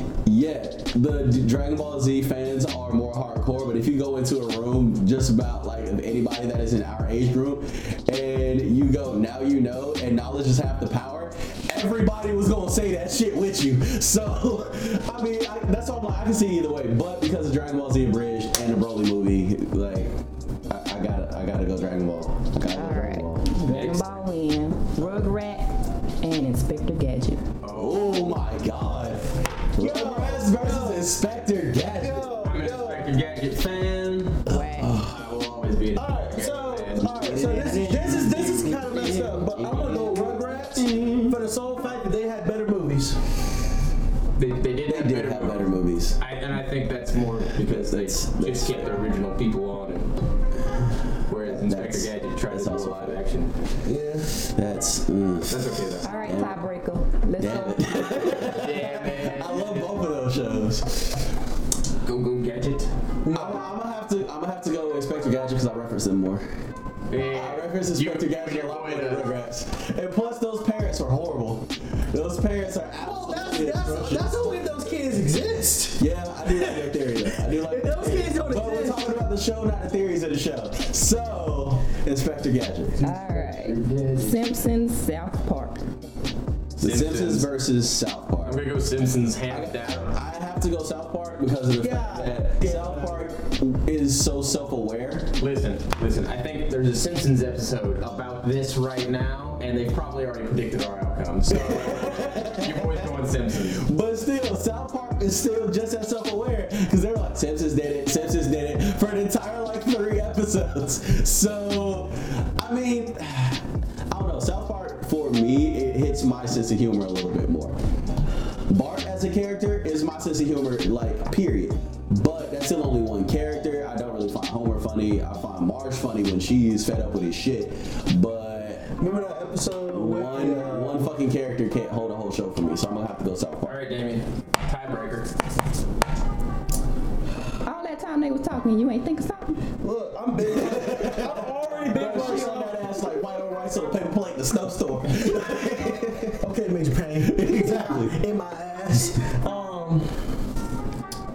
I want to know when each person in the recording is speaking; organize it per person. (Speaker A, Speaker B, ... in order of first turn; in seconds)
Speaker A: 0.2-23.5, 27.7-32.3, 34.5-35.2, 37.0-41.4, 44.9-46.2, 47.6-49.0, 51.5-53.2, 54.3-56.6, 57.4-61.2, 63.3-66.5, 67.3-74.3, 76.0-83.0, 86.8-88.7, 89.5-95.3, 101.5-117.8, 118.7-129.0, 129.9-133.8, 140.4-146.4, 147.2-148.2
Speaker B: 22.7-27.4, 34.5-35.0, 56.0-58.5, 83.0-85.9, 137.6-139.6
Speaker C: 23.7-24.2, 27.6-28.4, 32.4-37.5, 39.0-40.2, 44.4-50.1, 51.3-53.5, 55.5-56.1, 58.4-60.1, 62.0-62.9, 67.1-69.3, 83.0-84.4, 86.8-87.5, 88.4-90.2, 95.4-103.9, 133.6-135.4
Speaker D: 29.8-31.1, 32.0-33.1, 36.0-43.2, 53.9-54.3, 63.2-63.6, 73.0-79.2, 91.8-93.3, 129.0-131.2, 139.8-142.9, 145.4-150.2